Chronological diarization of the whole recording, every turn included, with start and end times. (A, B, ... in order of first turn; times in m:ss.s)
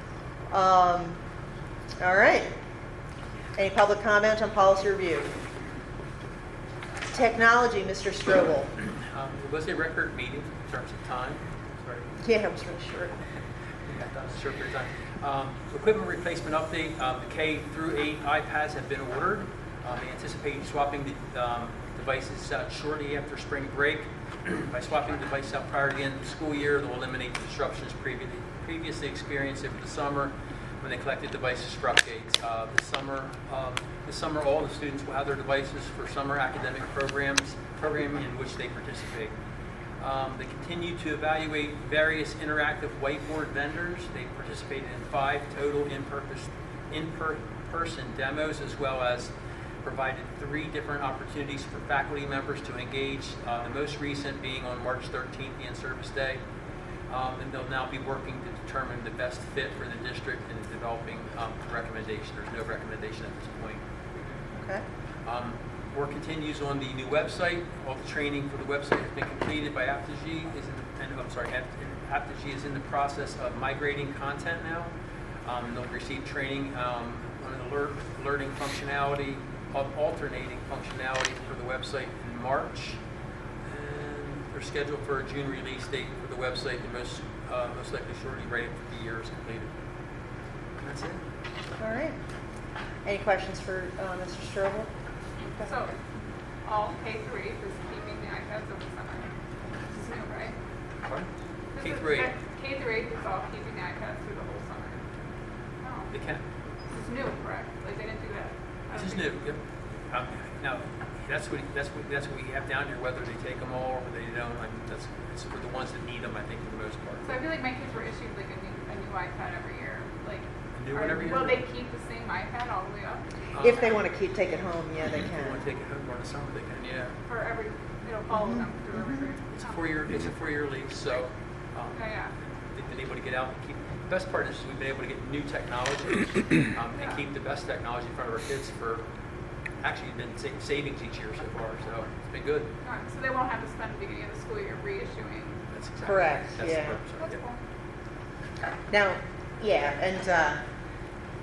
0:00.5-0:01.2 A
0:02.0-0:02.5 A
0:03.6-0:05.3 A
0:07.1-0:08.7 A
0:09.1-0:12.1 B
0:12.2-0:13.2 A
0:13.9-0:39.3 B
0:40.0-0:49.3 B
0:49.8-0:56.4 B
0:57.1-1:03.8 B
1:05.2-1:14.9 B
1:15.4-1:23.0 B
1:23.6-1:29.7 B
1:30.8-1:31.2 B
1:31.8-1:32.2 A
1:33.0-1:34.9 A
1:35.6-1:36.0 C
1:36.6-1:39.3 C
1:39.9-1:40.6 C
1:41.8-1:45.0 C
1:41.8-1:42.3 B
1:45.8-1:46.1 C
1:46.1-1:46.4 B
1:46.9-1:49.3 C
1:49.0-1:57.4 B
1:57.2-2:03.3 C
2:00.8-2:01.6 B
2:03.5-2:04.0 B
2:03.6-2:05.6 A
2:05.2-2:07.2 B
2:07.3-2:09.8 C
2:08.3-2:09.3 A
2:09.5-2:19.0 B
2:11.9-2:12.3 C
2:17.0-2:17.2 C
2:19.8-2:22.7 B
2:22.8-2:26.3 C
2:25.7-2:27.4 B
2:26.0-2:27.0 A
2:27.2-2:27.6 C
2:28.9-2:30.6 A